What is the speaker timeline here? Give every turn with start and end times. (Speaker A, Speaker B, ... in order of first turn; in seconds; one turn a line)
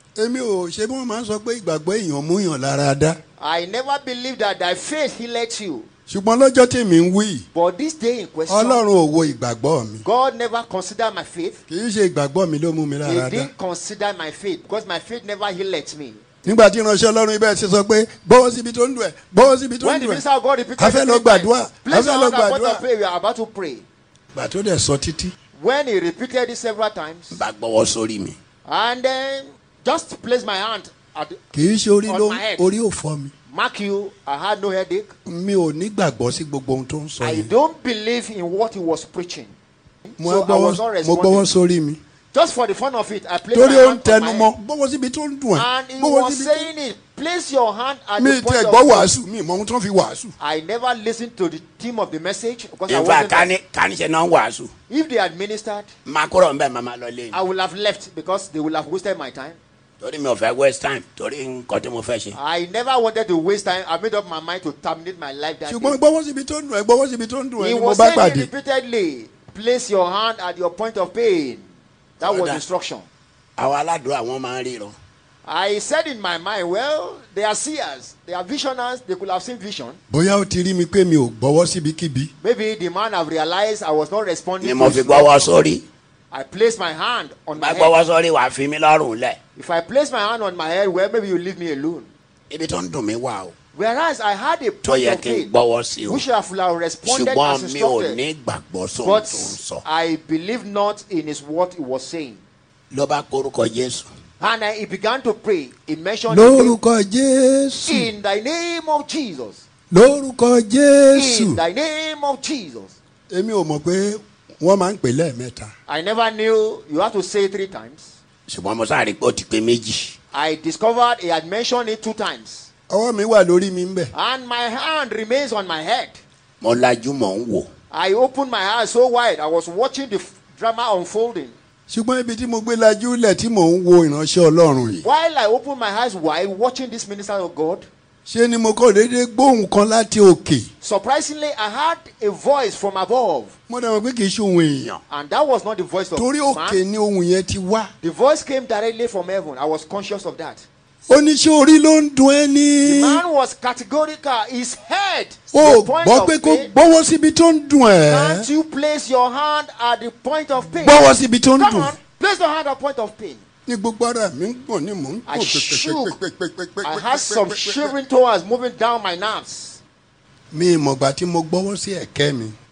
Speaker A: 0.2-3.2
Speaker B: 3.4-5.9
Speaker A: 6.1-7.5
Speaker B: 7.5-8.8
Speaker A: 8.5-10.1
Speaker B: 10.0-11.6
Speaker A: 11.7-13.5
Speaker B: 13.0-16.2
Speaker A: 16.4-20.2
Speaker B: 19.8-23.9
Speaker A: 20.8-22.8
Speaker A: 24.4-25.3
Speaker B: 25.6-27.4
Speaker C: 27.3-28.4
Speaker B: 28.7-31.4
Speaker A: 31.5-33.3
Speaker B: 32.0-32.7
Speaker B: 33.5-35.1
Speaker A: 35.3-37.5
Speaker B: 37.2-39.5
Speaker B: 40.1-41.5
Speaker A: 40.2-42.0
Speaker B: 42.3-44.5
Speaker A: 43.5-46.7
Speaker B: 45.5-49.1
Speaker A: 48.2-50.3
Speaker B: 50.4-53.5
Speaker C: 52.9-54.7
Speaker B: 54.9-55.9
Speaker C: 56.0-57.4
Speaker B: 57.3-59.6
Speaker C: 60.0-62.4
Speaker B: 62.3-66.0
Speaker A: 65.7-68.5
Speaker B: 67.6-71.7
Speaker B: 72.2-73.1
Speaker C: 72.2-72.6
Speaker C: 73.6-75.0
Speaker B: 75.5-80.0
Speaker A: 80.1-82.3
Speaker B: 82.4-85.5
Speaker C: 84.6-85.8
Speaker B: 86.3-88.0
Speaker C: 87.6-89.4
Speaker B: 89.6-92.1
Speaker C: 92.5-93.5
Speaker B: 93.7-95.5
Speaker C: 94.8-96.2
Speaker B: 96.1-98.2
Speaker C: 97.0-99.8
Speaker B: 99.0-102.4
Speaker C: 102.9-104.1
Speaker B: 104.4-106.8
Speaker A: 106.3-108.1
Speaker B: 107.9-109.6
Speaker A: 109.9-111.6
Speaker B: 111.1-113.0
Speaker A: 113.3-115.7
Speaker B: 115.9-118.2
Speaker C: 118.5-120.2
Speaker B: 120.3-122.7
Speaker A: 122.9-124.1
Speaker B: 124.1-126.2
Speaker C: 126.6-127.7
Speaker B: 127.9-131.5
Speaker A: 131.9-135.1
Speaker B: 135.0-137.9
Speaker A: 138.3-140.7
Speaker B: 140.8-143.5
Speaker A: 143.7-145.0
Speaker B: 145.1-146.8
Speaker A: 146.2-147.9
Speaker B: 148.0-150.7
Speaker A: 151.1-153.2
Speaker B: 152.8-156.8
Speaker A: 155.5-158.5
Speaker B: 158.1-163.4
Speaker A: 160.8-161.9
Speaker A: 163.7-167.9
Speaker B: 165.3-166.2
Speaker B: 166.8-169.8
Speaker A: 170.5-172.6